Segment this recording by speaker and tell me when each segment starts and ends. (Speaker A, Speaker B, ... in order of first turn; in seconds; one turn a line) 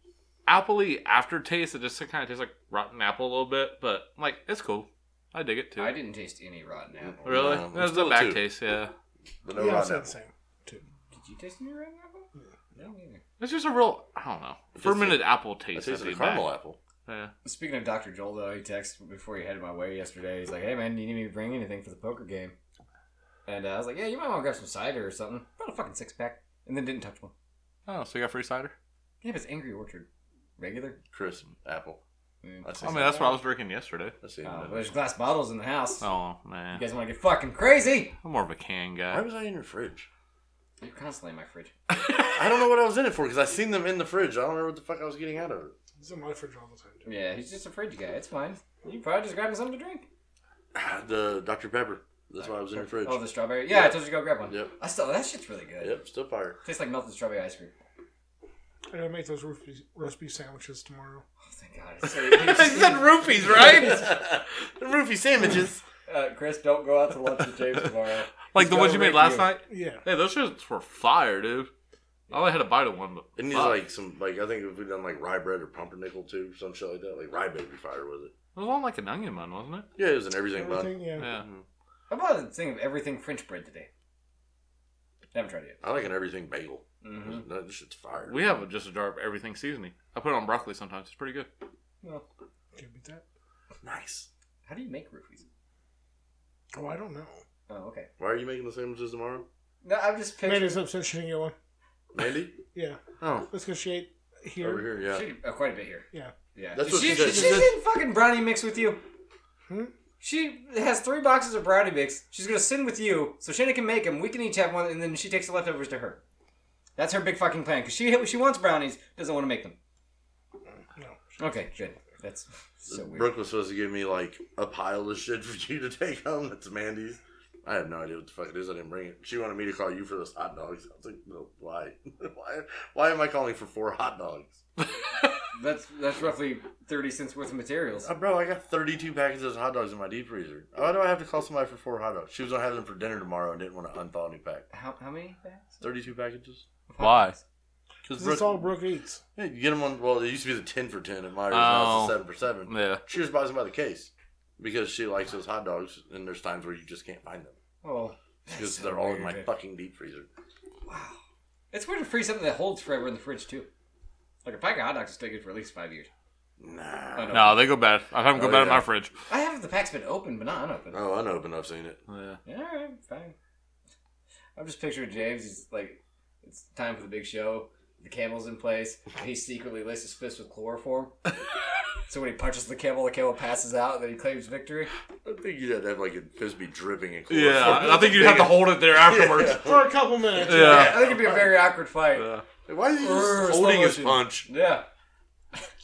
Speaker A: 0.5-6.0
Speaker B: 5.8-7.6
Speaker C: 7.2-8.4
Speaker A: 7.2-8.9
Speaker C: 9.4-10.1
Speaker D: 9.5-10.8
Speaker B: 11.1-13.2
Speaker A: 13.4-16.5
Speaker C: 14.7-16.8
Speaker A: 17.1-17.3
Speaker B: 17.4-22.5
Speaker B: 23.4-27.3
Speaker A: 27.9-28.7
Speaker B: 29.2-30.1
Speaker B: 30.6-31.0
Speaker C: 31.1-32.0
Speaker B: 32.4-33.1
Speaker C: 32.6-33.2
Speaker A: 32.8-34.1
Speaker C: 34.2-34.9
Speaker B: 34.4-36.0
Speaker A: 36.0-36.8
Speaker B: 36.7-38.1
Speaker A: 38.2-39.2
Speaker C: 39.1-40.1
Speaker B: 40.8-41.7
Speaker C: 42.3-45.7
Speaker D: 46.0-47.0
Speaker B: 47.0-50.0
Speaker C: 50.7-54.0
Speaker B: 52.8-56.0
Speaker C: 55.8-56.6
Speaker B: 56.6-57.7
Speaker D: 58.9-61.2
Speaker B: 61.5-63.9
Speaker A: 62.2-64.1
Speaker C: 63.5-65.8
Speaker B: 66.1-69.5
Speaker A: 68.5-71.7
Speaker D: 69.7-70.0
Speaker A: 72.3-73.8
Speaker C: 73.3-78.3
Speaker A: 78.5-79.9
Speaker C: 80.0-81.6
Speaker D: 80.5-81.3
Speaker A: 81.2-81.5
Speaker B: 82.1-83.9
Speaker B: 85.3-85.8
Speaker C: 85.8-88.5
Speaker B: 87.0-87.4
Speaker A: 88.2-91.5
Speaker D: 92.7-93.2
Speaker C: 93.8-94.3
Speaker B: 94.7-95.4
Speaker D: 96.7-97.4
Speaker B: 97.7-98.1
Speaker C: 98.2-99.5
Speaker B: 99.8-100.8
Speaker D: 100.4-101.5
Speaker C: 102.1-102.6
Speaker D: 102.7-104.9
Speaker C: 103.2-103.5
Speaker C: 104.6-105.2
Speaker B: 105.1-109.0
Speaker C: 106.7-107.7
Speaker D: 106.9-107.6
Speaker B: 110.2-116.2
Speaker B: 117.0-119.8
Speaker D: 121.0-121.5
Speaker B: 121.4-123.3
Speaker C: 122.9-134.6
Speaker B: 135.5-138.1
Speaker C: 138.0-144.7
Speaker B: 144.7-145.8
Speaker C: 145.8-146.6
Speaker B: 146.9-147.4
Speaker A: 147.0-147.3
Speaker C: 148.0-148.7
Speaker D: 148.2-149.2
Speaker C: 149.3-157.5
Speaker A: 151.5-153.0
Speaker B: 157.8-159.5
Speaker C: 158.5-160.3
Speaker B: 160.8-161.2
Speaker B: 161.7-163.7
Speaker B: 164.4-166.1
Speaker C: 166.6-167.6
Speaker B: 167.1-167.6
Speaker A: 167.3-169.1
Speaker C: 168.3-168.8
Speaker B: 169.3-171.0
Speaker C: 170.9-172.0
Speaker A: 172.1-172.4
Speaker B: 172.4-173.3
Speaker B: 174.6-181.1
Speaker B: 182.1-184.9
Speaker C: 185.2-191.6
Speaker A: 187.3-189.6
Speaker D: 189.6-191.0
Speaker A: 190.4-191.1
Speaker B: 190.5-192.3
Speaker A: 192.2-192.4
Speaker C: 192.7-194.5
Speaker B: 193.0-194.8